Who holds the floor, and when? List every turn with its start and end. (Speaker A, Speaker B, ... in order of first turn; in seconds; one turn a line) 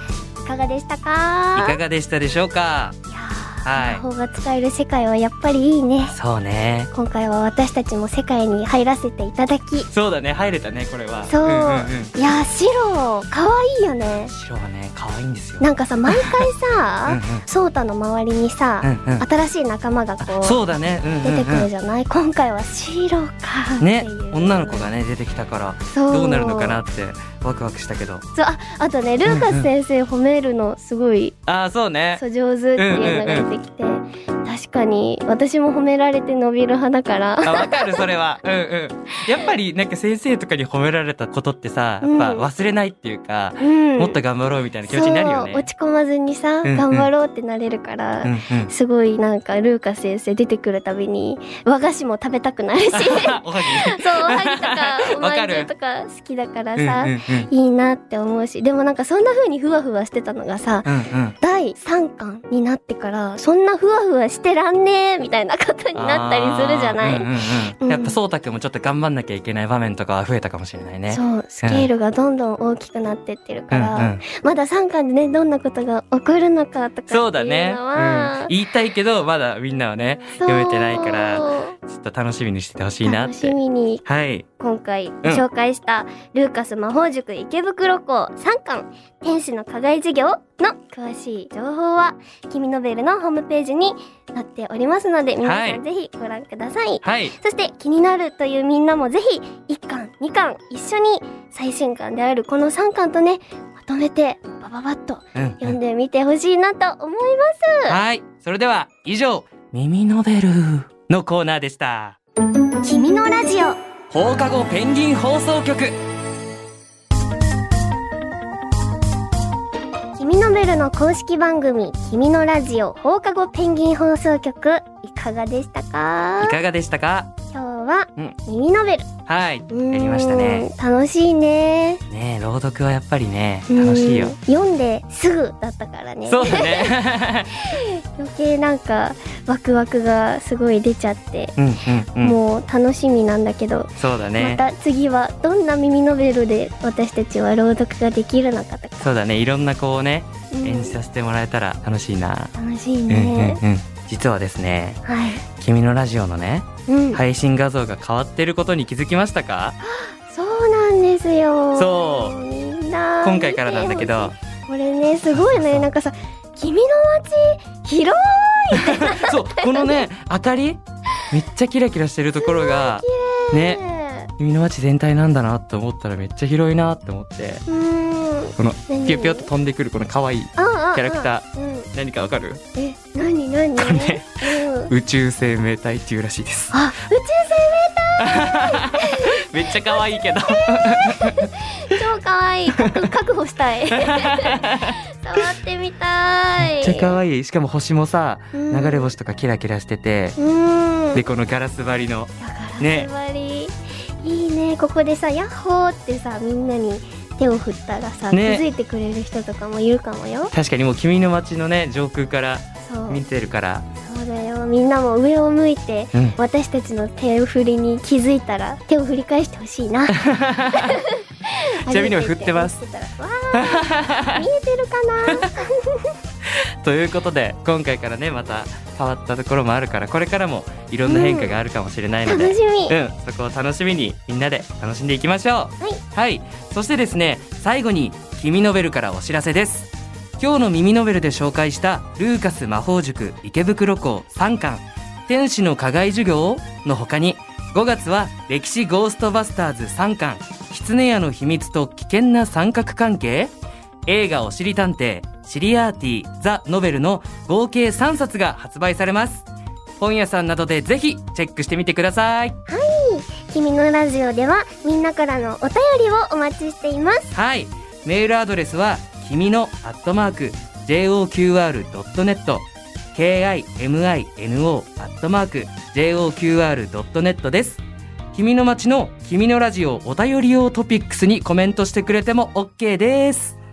Speaker A: 0.4-1.8
Speaker B: 1.6-3.0
Speaker A: 3.1-6.1
Speaker B: 3.6-4.0
Speaker B: 6.1-6.9
Speaker A: 6.9-9.9
Speaker B: 9.9-12.1
Speaker A: 11.3-14.3
Speaker B: 14.3-16.5
Speaker A: 15.6-20.6
Speaker B: 17.1-17.4
Speaker B: 18.8-19.2
Speaker B: 20.2-21.7
Speaker A: 21.2-24.9
Speaker B: 23.8-28.2
Speaker A: 25.9-26.8
Speaker A: 28.3-31.4
Speaker B: 29.2-29.7
Speaker B: 31.4-32.2
Speaker A: 32.1-38.0
Speaker B: 32.8-33.5
Speaker B: 37.4-45.6
Speaker A: 42.0-42.5
Speaker A: 43.6-44.2
Speaker A: 44.9-67.3
Speaker B: 46.6-47.1
Speaker B: 48.2-48.7
Speaker B: 52.9-55.7
Speaker B: 56.8-57.5
Speaker B: 60.9-61.3
Speaker B: 65.9-71.9
Speaker A: 67.8-68.1
Speaker A: 71.1-78.5
Speaker B: 73.7-74.2
Speaker B: 77.1-84.4
Speaker A: 80.4-81.7
Speaker A: 83.0-84.0
Speaker A: 84.6-108.0
Speaker B: 95.4-95.8
Speaker B: 97.0-97.3
Speaker B: 105.3-105.8
Speaker B: 107.9-112.2
Speaker A: 112.8-113.8
Speaker B: 114.1-116.0
Speaker A: 120.2-126.6
Speaker B: 126.4-127.3
Speaker A: 127.5-129.1
Speaker B: 129.3-130.7
Speaker A: 129.7-132.0
Speaker B: 132.1-134.3
Speaker A: 133.7-137.0
Speaker B: 136.3-137.7
Speaker A: 137.7-141.6
Speaker B: 141.6-142.4
Speaker A: 142.2-149.1
Speaker B: 144.0-144.6
Speaker B: 149.0-152.5
Speaker A: 150.5-151.0
Speaker A: 152.5-153.6
Speaker B: 153.1-155.0
Speaker A: 155.0-155.4
Speaker B: 155.6-159.8
Speaker A: 156.9-157.2
Speaker A: 159.8-170.0
Speaker B: 161.7-162.3
Speaker B: 163.2-164.3
Speaker B: 165.3-165.8
Speaker B: 168.7-170.8
Speaker B: 171.3-173.8
Speaker A: 172.4-174.3
Speaker B: 174.4-177.6
Speaker A: 177.7-179.5
Speaker B: 178.6-182.6
Speaker A: 180.6-181.9
Speaker A: 182.7-184.9
Speaker B: 183.8-186.8
Speaker A: 186.7-197.1
Speaker B: 188.2-192.0
Speaker B: 192.7-193.0
Speaker B: 194.0-195.4
Speaker B: 196.6-200.4
Speaker A: 198.5-199.1
Speaker A: 200.4-201.2
Speaker B: 201.1-203.1
Speaker A: 202.4-210.5
Speaker B: 208.3-208.6
Speaker B: 210.5-213.8
Speaker A: 212.8-213.2
Speaker A: 214.0-220.2
Speaker B: 220.1-221.0
Speaker A: 220.7-226.1
Speaker B: 221.8-222.8
Speaker B: 223.5-224.4
Speaker B: 225.3-225.5
Speaker B: 226.8-253.5
Speaker A: 231.0-231.6
Speaker A: 232.2-232.9
Speaker B: 254.1-259.4
Speaker B: 260.0-262.6
Speaker A: 262.7-267.3
Speaker B: 267.3-277.8
Speaker B: 278.3-283.6